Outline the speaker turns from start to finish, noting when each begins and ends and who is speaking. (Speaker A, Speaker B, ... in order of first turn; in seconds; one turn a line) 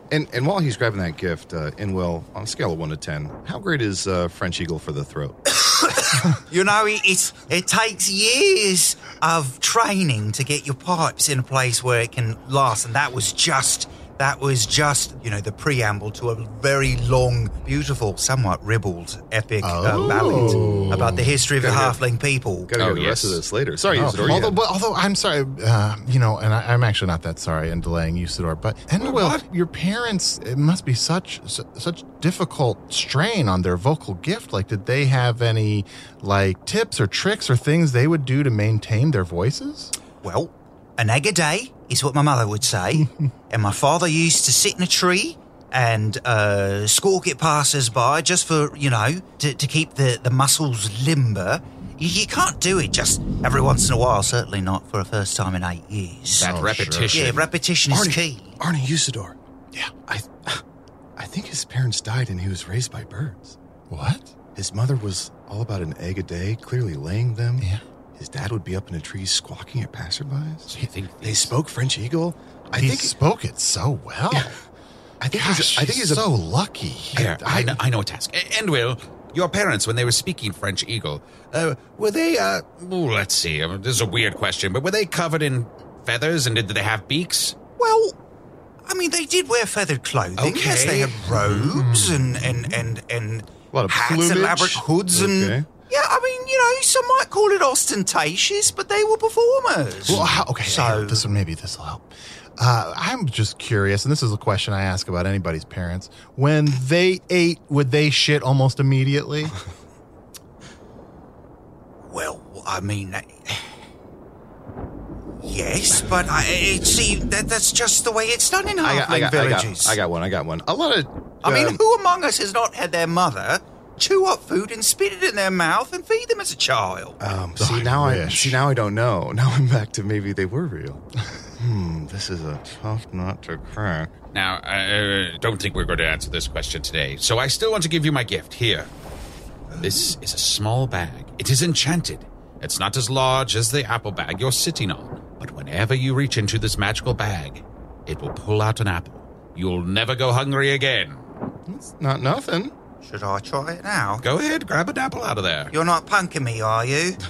Speaker A: 0.1-5.4
Speaker B: 5.6-22.7
Speaker C: 19.6-21.3
Speaker A: 20.1-22.0
Speaker A: 22.7-24.6
Speaker D: 22.8-23.4
Speaker C: 23.9-39.9
Speaker D: 29.0-29.4
Speaker B: 40.2-56.5
Speaker D: 56.4-57.5
Speaker C: 56.4-57.3
Speaker B: 57.1-58.6
Speaker A: 57.9-59.4
Speaker A: 60.1-60.6
Speaker A: 61.2-63.5
Speaker C: 63.9-64.3
Speaker A: 64.5-70.7
Speaker D: 70.7-71.5
Speaker A: 71.2-73.1
Speaker C: 72.7-74.6
Speaker A: 75.2-76.3
Speaker C: 75.3-77.8
Speaker D: 77.1-87.5
Speaker B: 87.8-88.2
Speaker B: 88.9-101.2
Speaker D: 90.4-91.8
Speaker C: 91.9-92.3
Speaker A: 93.7-95.7
Speaker C: 100.0-109.5
Speaker A: 100.1-100.4
Speaker B: 112.1-113.8
Speaker B: 115.4-120.0
Speaker A: 118.8-121.8
Speaker B: 121.4-127.2
Speaker A: 127.2-131.0
Speaker C: 127.6-128.6
Speaker A: 131.6-134.1
Speaker D: 134.3-138.9
Speaker A: 139.8-140.1
Speaker D: 139.8-151.2
Speaker A: 151.7-152.7
Speaker B: 153.0-154.2
Speaker D: 154.2-155.7
Speaker B: 155.7-157.2